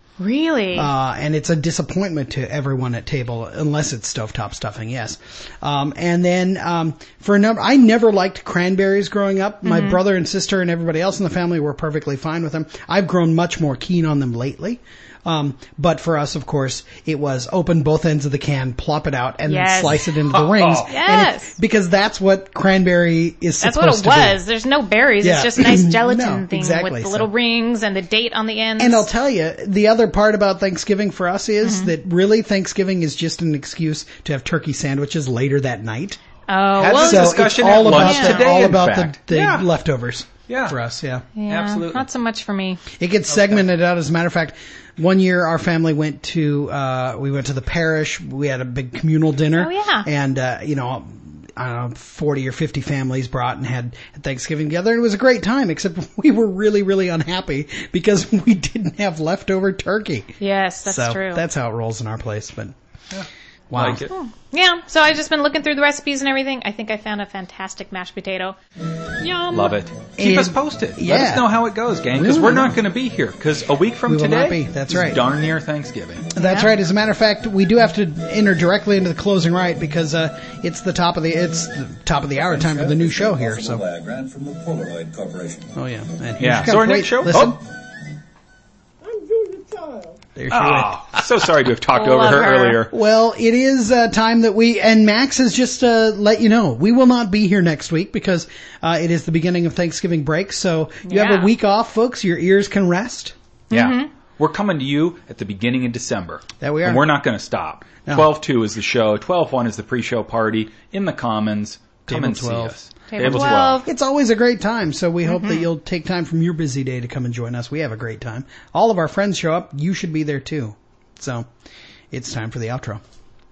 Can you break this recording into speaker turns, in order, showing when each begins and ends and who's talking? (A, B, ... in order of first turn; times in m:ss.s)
0:00.2-0:00.9 A
0:00.7-0:24.4 B
0:09.6-0:10.0 A
0:19.5-0:20.1 A
0:20.3-0:20.9 C
0:20.8-0:21.6 A
0:23.6-0:29.1 A
0:25.2-0:27.3 B
0:28.8-0:36.2 B
0:31.6-0:31.9 A
0:36.5-0:38.4 A
0:36.8-0:39.7 C
0:36.9-0:41.2 B
0:40.5-0:40.8 C
0:41.4-0:42.8 A
0:41.5-0:42.0 C
0:43.0-1:02.7 B
0:49.6-0:50.1 A
1:00.4-1:01.4 A
1:03.1-1:04.1 C
1:03.7-1:04.0 B
1:04.1-1:08.6 A
1:09.2-1:09.7 A
1:09.5-1:16.3 C
1:10.2-1:12.8 B
1:14.1-1:15.2 B
1:16.3-1:23.8 B
1:16.4-1:16.7 A
1:22.3-1:25.7 D
1:25.8-1:27.6 B
1:26.4-1:27.6 C
1:30.3-1:31.0 B
1:30.5-1:32.9 C
1:31.9-1:32.8 A
1:32.9-1:43.3 B
1:41.0-1:41.5 A
1:43.7-1:44.1 A
1:43.7-1:53.8 C
1:46.6-1:47.0 B
1:52.1-2:01.5 B
1:53.1-1:53.9 A
1:55.2-1:55.6 A
2:02.1-2:03.0 B